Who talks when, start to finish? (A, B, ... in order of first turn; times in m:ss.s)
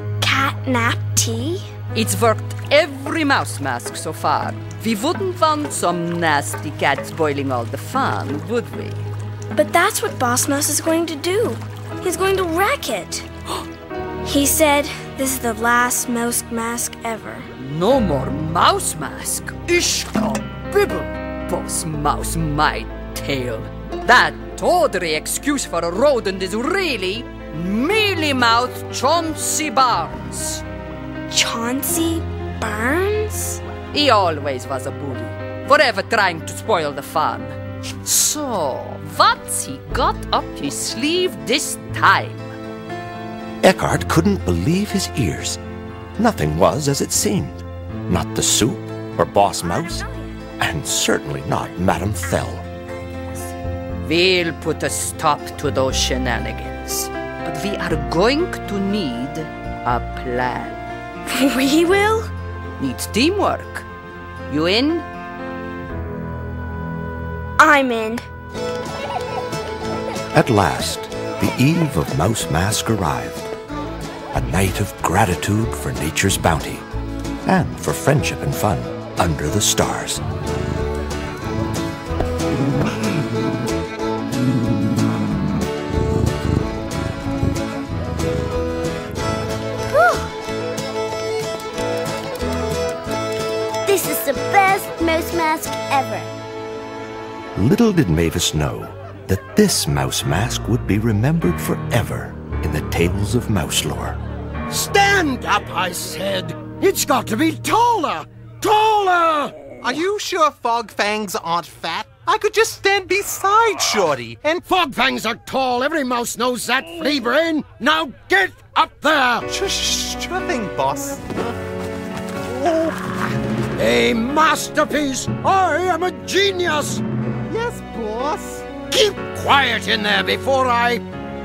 0:00.2-0:01.6 A
0:01.9-0:09.0 B
0:09.6-0:13.3 A
0:14.2-0:17.5 A
0:17.6-0:30.6 B
0:31.3-0:33.6 A
0:33.9-0:42.5 B
0:43.6-0:45.6 C
0:46.2-0:50.1 C
0:50.6-0:52.6 C
0:54.0-1:00.8 B
1:01.3-1:02.3 A
1:02.8-1:03.9 B
1:04.5-1:05.1 B
1:07.6-1:08.2 A
1:10.3-1:13.5 C
1:14.3-1:16.8 C
1:17.4-1:20.2 C
1:33.9-1:36.3 D
1:37.6-1:44.2 C
1:44.7-1:50.0 E
1:49.8-1:54.6 F
1:54.7-1:59.5 E
1:59.5-2:01.6 F
2:02.5-2:03.0 F
2:03.8-2:07.0 E
2:07.5-2:08.7 F
2:08.9-2:11.0 E